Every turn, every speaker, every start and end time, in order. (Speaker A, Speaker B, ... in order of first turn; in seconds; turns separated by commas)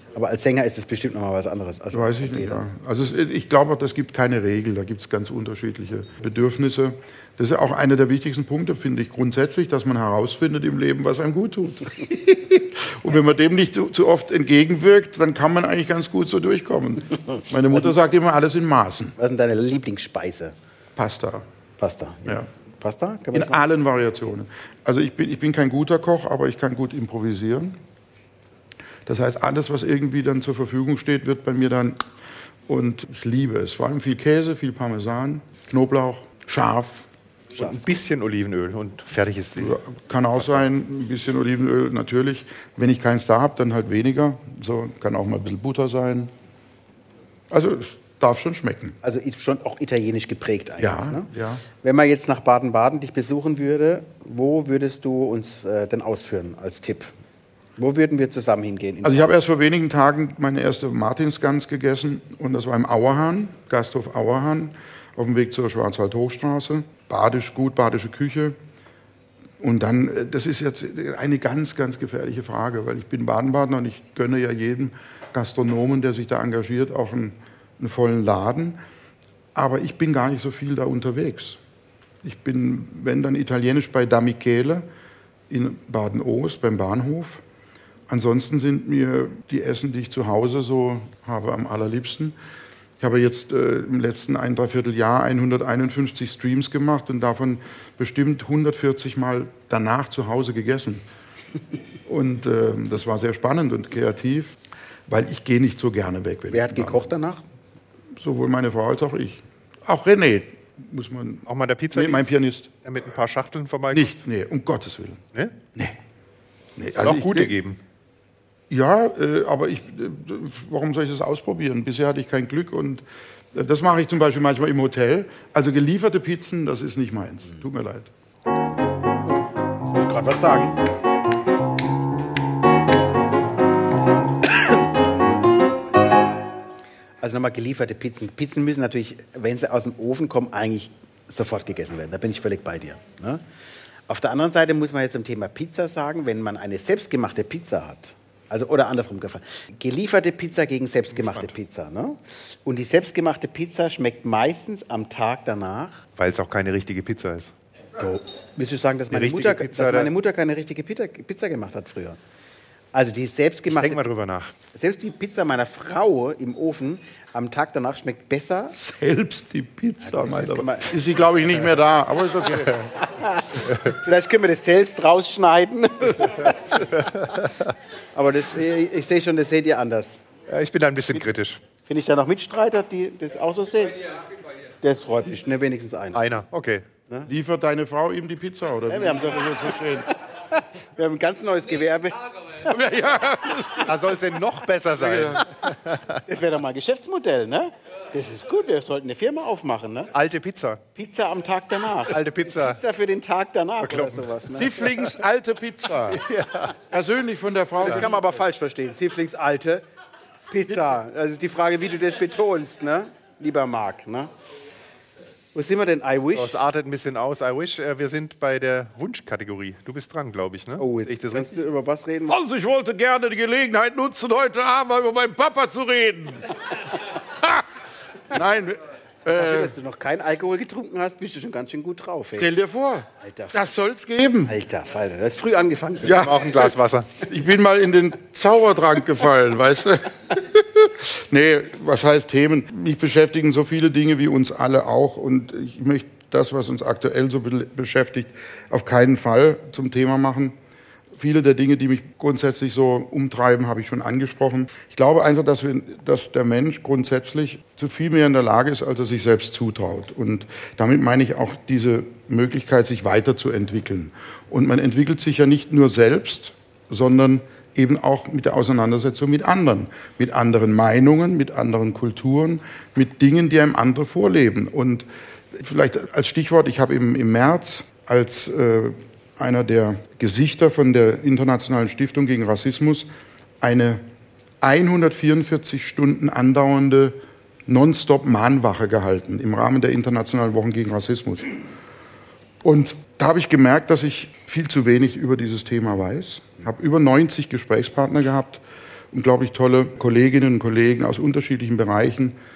Speaker A: 0.1-2.6, Speaker B: 1.9-19.2, Speaker A: 19.2-20.6, Speaker B: 21.0-21.5, Speaker A: 21.8-23.6, Speaker B: 23.3-27.8, Speaker B: 29.1-32.0, Speaker B: 32.7-37.1, Speaker C: 37.5-39.8, Speaker B: 39.6-46.3, Speaker B: 47.5-49.0, Speaker A: 49.0-57.1, Speaker B: 50.8-51.6, Speaker A: 57.8-59.3, Speaker B: 59.0-68.6, Speaker B: 69.6-78.8, Speaker B: 79.5-81.6, Speaker B: 82.2-84.8, Speaker B: 85.5-87.4, Speaker B: 88.1-92.3, Speaker B: 93.0-101.0, Speaker B: 102.1-107.1, Speaker A: 106.5-107.4, Speaker B: 108.2-112.8, Speaker C: 111.5-112.3, Speaker C: 112.8-114.2, Speaker B: 113.9-115.2, Speaker B: 116.8-117.6, Speaker C: 117.0-117.8, Speaker B: 118.7-128.1, Speaker A: 129.9-130.8, Speaker A: 137.2-143.4, Speaker A: 144.1-156.0, Speaker C: 151.2-151.5, Speaker C: 156.2-157.5, Speaker A: 158.0-162.2, Speaker C: 159.1-160.1, Speaker A: 162.9-164.0, Speaker C: 163.7-164.5, Speaker A: 164.7-168.8, Speaker B: 168.8-172.9, Speaker A: 170.0-170.9, Speaker A: 173.0-177.2, Speaker A: 178.1-180.2, Speaker C: 180.5-181.6, Speaker A: 181.9-184.1, Speaker A: 184.8-186.2, Speaker C: 186.1-186.8, Speaker B: 187.3-190.1, Speaker A: 188.9-189.8, Speaker A: 190.9-192.7, Speaker B: 192.7-194.0, Speaker C: 193.8-196.2, Speaker B: 194.9-195.5, Speaker A: 196.3-200.1, Speaker C: 200.1-200.8, Speaker A: 200.9-205.1, Speaker C: 202.1-202.8, Speaker C: 203.8-204.3, Speaker B: 204.5-206.2, Speaker C: 206.1-206.7, Speaker B: 206.9-208.1, Speaker A: 207.8-209.8, Speaker A: 210.5-214.3, Speaker A: 215.5-216.6, Speaker C: 216.3-221.6, Speaker A: 220.8-222.4, Speaker B: 222.3-227.6, Speaker B: 228.3-229.7, Speaker A: 229.3-232.5, Speaker B: 232.4-234.6, Speaker A: 233.2-233.6, Speaker A: 234.5-236.3, Speaker B: 236.0-250.6, Speaker C: 236.0-237.2, Speaker B: 251.2-283.1, Speaker B: 283.6-284.0, Speaker B: 284.6-287.2, Speaker B: 287.7-291.6, Speaker B: 292.6-302.4